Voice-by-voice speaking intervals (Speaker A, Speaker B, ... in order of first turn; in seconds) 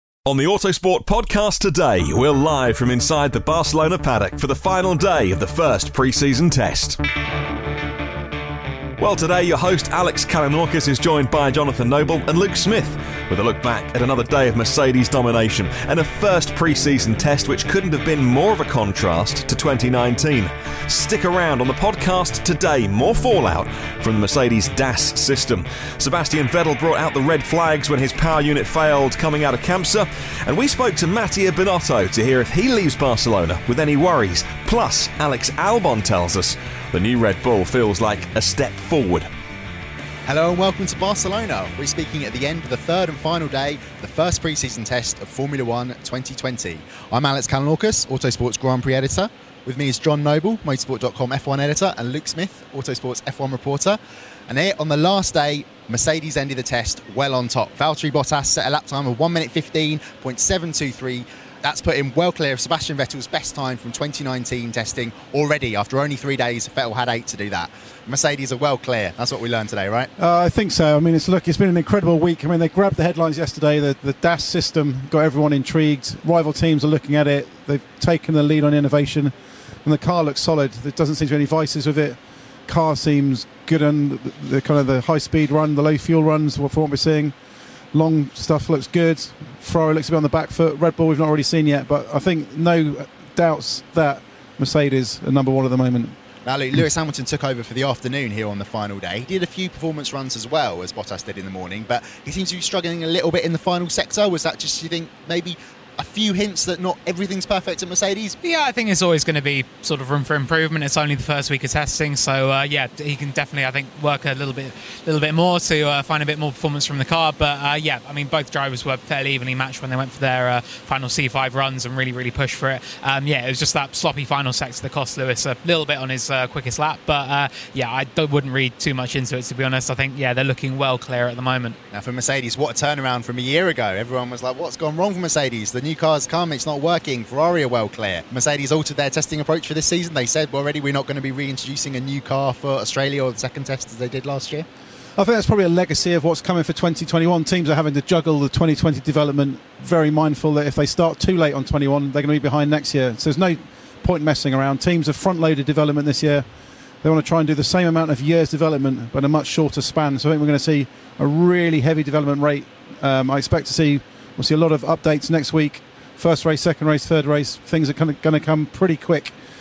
Speaker A: 0.3-7.0, 9.0-39.3
Speaker B: 40.3-70.1, 96.5-108.4, 131.9-144.7
Speaker C: 70.2-87.3, 87.9-96.2, 145.2-156.4, 157.0-169.3
Speaker D: 108.4-131.8